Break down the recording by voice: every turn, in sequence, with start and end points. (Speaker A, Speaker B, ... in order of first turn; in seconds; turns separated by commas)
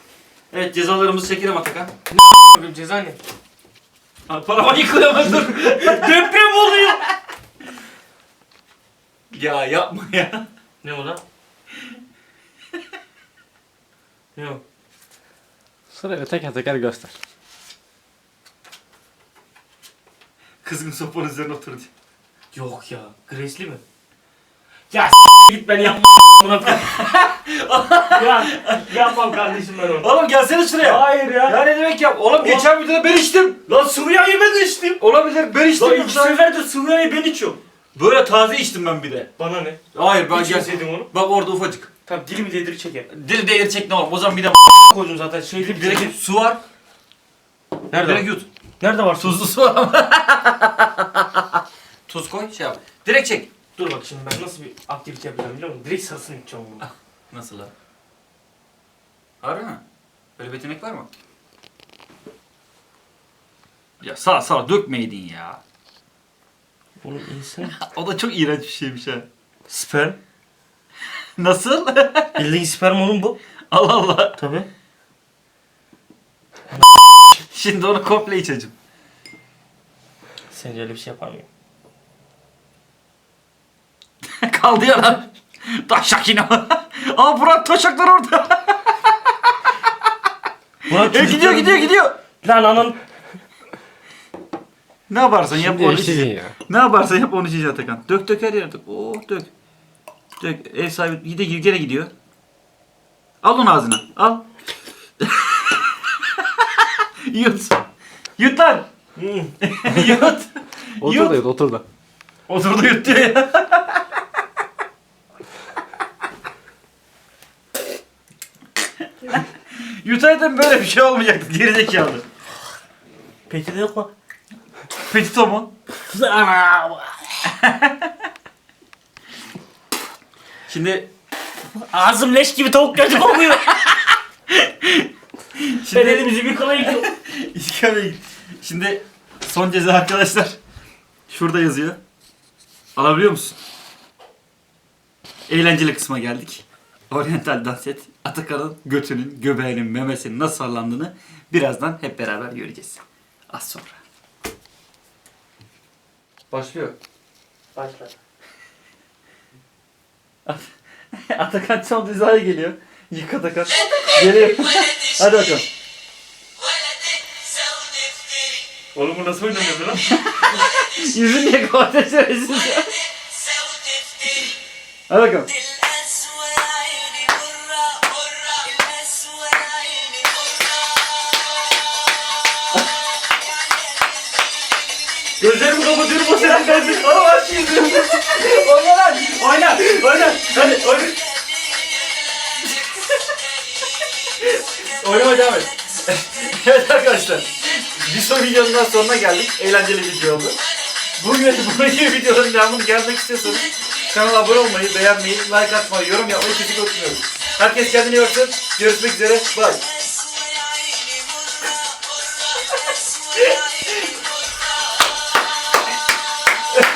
Speaker A: 0.5-1.9, Speaker B: 2.1-3.2, Speaker A: 4.3-6.3, Speaker B: 5.3-7.0, Speaker A: 9.3-10.5, Speaker B: 10.8-11.2, Speaker B: 14.3-14.6, Speaker C: 15.9-17.1, Speaker A: 20.6-21.9, Speaker B: 22.5-23.8, Speaker B: 24.9-26.9, Speaker A: 26.7-29.3, Speaker B: 28.1-30.1, Speaker A: 30.0-33.7, Speaker B: 30.8-31.6, Speaker B: 32.4-32.7, Speaker B: 33.7-35.0, Speaker A: 35.0-36.4, Speaker B: 35.7-37.6, Speaker A: 38.0-39.3, Speaker B: 39.4-41.1, Speaker A: 39.9-41.9, Speaker B: 42.0-43.1, Speaker A: 43.1-44.9, Speaker B: 44.7-46.1, Speaker A: 45.6-46.6, Speaker B: 47.9-49.5, Speaker A: 48.0-48.5, Speaker A: 49.2-53.5, Speaker B: 53.8-56.9, Speaker A: 56.8-57.7, Speaker A: 59.4-59.8, Speaker A: 60.4-61.1, Speaker A: 64.0-65.6, Speaker B: 67.0-67.8, Speaker A: 67.7-69.2, Speaker B: 69.7-70.2, Speaker A: 71.4-72.4, Speaker B: 72.3-73.4, Speaker A: 73.7-74.3, Speaker B: 74.4-74.7, Speaker A: 77.4-78.7, Speaker B: 80.5-81.5, Speaker A: 84.4-89.1, Speaker B: 90.9-93.0, Speaker A: 91.0-92.2, Speaker A: 95.1-99.5, Speaker C: 95.5-96.5, Speaker A: 100.4-102.1, Speaker A: 103.4-104.5, Speaker A: 105.2-107.8, Speaker A: 108.4-108.9, Speaker B: 109.2-109.5, Speaker A: 109.6-111.4, Speaker C: 111.0-111.8, Speaker A: 112.5-114.0, Speaker A: 119.2-122.2, Speaker B: 123.5-124.1, Speaker A: 125.0-125.7, Speaker B: 126.0-127.2, Speaker A: 127.6-128.1, Speaker A: 130.7-131.1, Speaker B: 131.8-133.9, Speaker A: 134.5-135.1, Speaker A: 135.6-140.6, Speaker B: 135.9-137.1, Speaker A: 141.3-142.0, Speaker A: 142.9-143.6, Speaker A: 145.5-154.0, Speaker A: 156.5-156.9, Speaker B: 157.8-158.1, Speaker A: 160.4-165.7, Speaker B: 168.9-170.0, Speaker A: 169.9-173.0, Speaker A: 175.1-175.5, Speaker A: 177.9-180.0, Speaker B: 185.4-187.1, Speaker A: 186.0-191.2, Speaker B: 190.0-191.1, Speaker A: 194.4-200.6, Speaker A: 201.2-209.8, Speaker A: 213.3-213.9